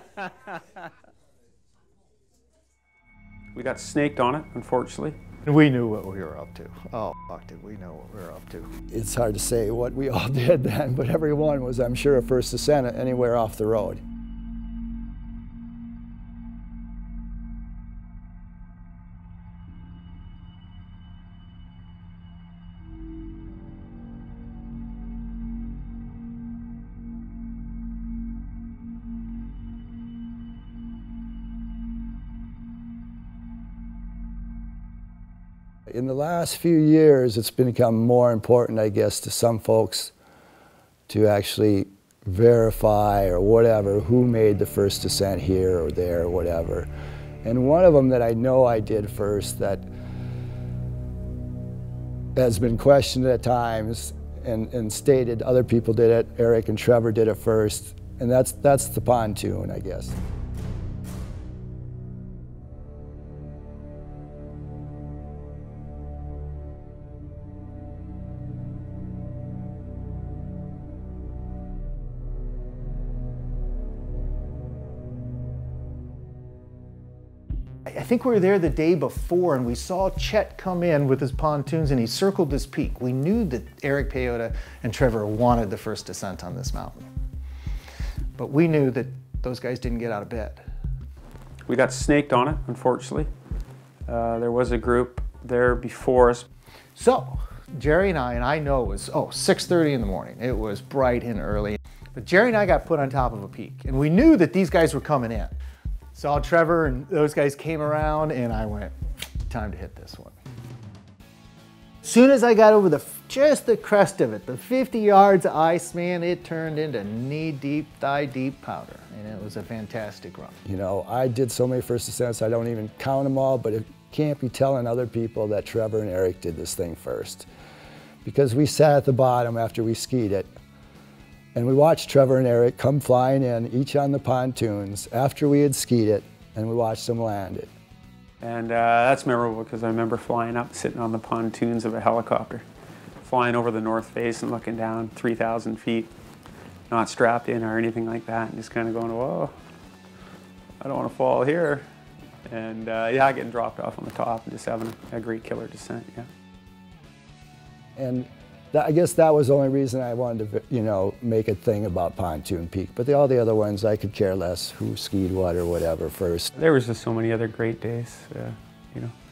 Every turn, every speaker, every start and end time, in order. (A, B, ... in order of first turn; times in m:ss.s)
0:03.5-0:05.2 A
0:05.4-0:08.7 B
0:08.9-0:14.0 C
0:35.9-0:40.1 C
0:41.1-0:46.9 C
0:47.4-0:49.9 C
0:52.4-1:00.2 C
1:17.8-1:27.1 B
1:28.4-1:30.6 B
1:31.7-1:33.3 A
1:34.1-1:36.4 A
1:37.0-1:45.5 B
1:46.1-1:48.9 B
1:49.4-1:50.4 B
1:52.0-2:00.6 B
2:00.6-2:07.5 C
2:08.2-2:10.5 C
2:11.5-2:17.7 C
2:18.4-2:22.6 A
2:23.2-2:26.1 A
2:26.9-2:29.5 A
2:30.8-2:31.8 A
2:32.5-2:36.3 A
2:38.0-2:46.5 C
2:46.5-2:49.1 A